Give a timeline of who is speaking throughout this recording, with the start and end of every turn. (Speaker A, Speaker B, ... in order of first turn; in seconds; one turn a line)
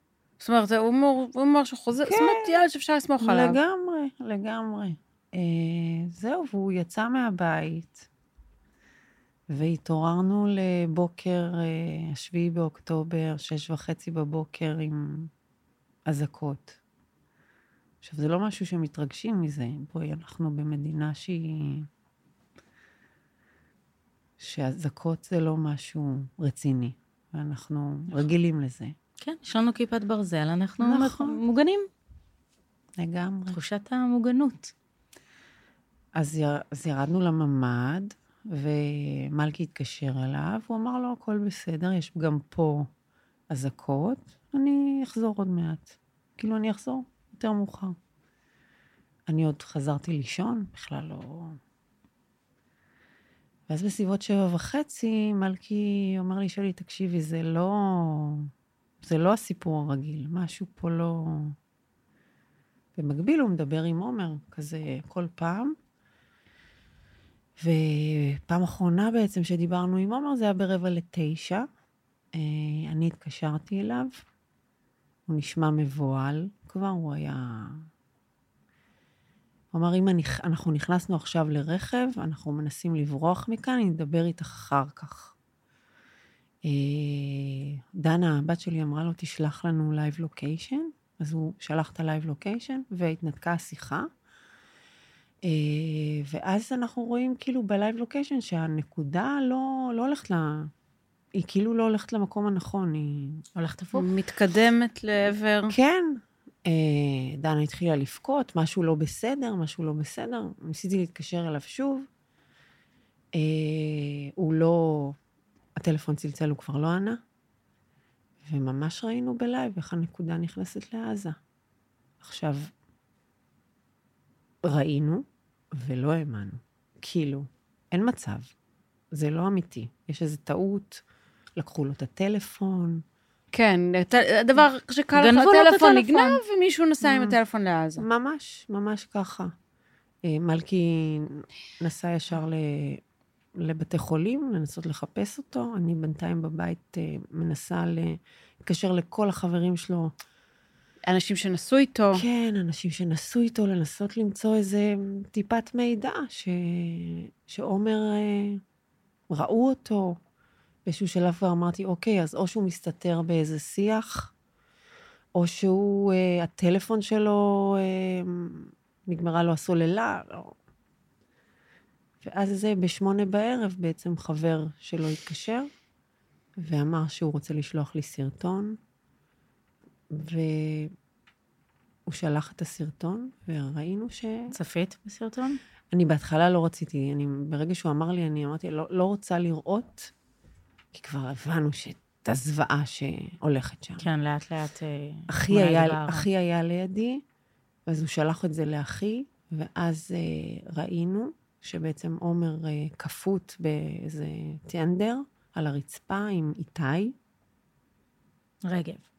Speaker A: 0.4-3.6
Speaker B: 2.0-2.5
Speaker B: 3.2-8.1
Speaker B: 9.5-15.3
Speaker B: 16.1-16.8
Speaker B: 18.0-21.9
Speaker B: 24.4-28.9
Speaker C: 29.2-31.9
Speaker B: 30.8-31.4
Speaker B: 33.0-33.6
Speaker C: 33.5-34.7
Speaker B: 36.1-42.9
Speaker B: 43.5-48.0
Speaker B: 49.3-51.6
Speaker B: 53.7-58.5
Speaker B: 59.0-61.5
Speaker B: 62.9-65.8
Speaker B: 67.6-71.7
Speaker B: 72.3-74.2
Speaker B: 75.3-77.9
Speaker B: 79.7-85.3
Speaker B: 86.6-94.1
Speaker B: 95.4-100.7
Speaker B: 101.3-103.4
Speaker C: 103.5-104.1
Speaker A: 103.9-105.7
Speaker B: 105.7-112.1
Speaker B: 113.3-115.2
Speaker B: 115.8-117.2
Speaker B: 118.4-121.3
Speaker B: 122.2-122.7
Speaker B: 124.6-128.5
Speaker B: 129.1-131.0
Speaker B: 131.6-133.0
Speaker A: 133.5-138.1
Speaker C: 135.1-136.4
Speaker B: 137.0-137.4
Speaker B: 138.0-139.5
Speaker B: 140.2-143.0
Speaker B: 143.6-150.1
Speaker A: 151.0-152.2
Speaker B: 152.1-158.6
Speaker B: 159.3-160.2
Speaker B: 160.8-164.3
Speaker B: 165.3-170.5
Speaker B: 172.2-175.7
Speaker B: 176.6-178.8
Speaker B: 180.1-180.9
Speaker B: 182.1-184.5
Speaker C: 184.5-185.6
Speaker B: 185.9-190.1
Speaker B: 190.9-194.1
Speaker C: 194.0-196.3
Speaker B: 195.3-197.2
Speaker B: 197.9-207.1
Speaker C: 208.7-209.0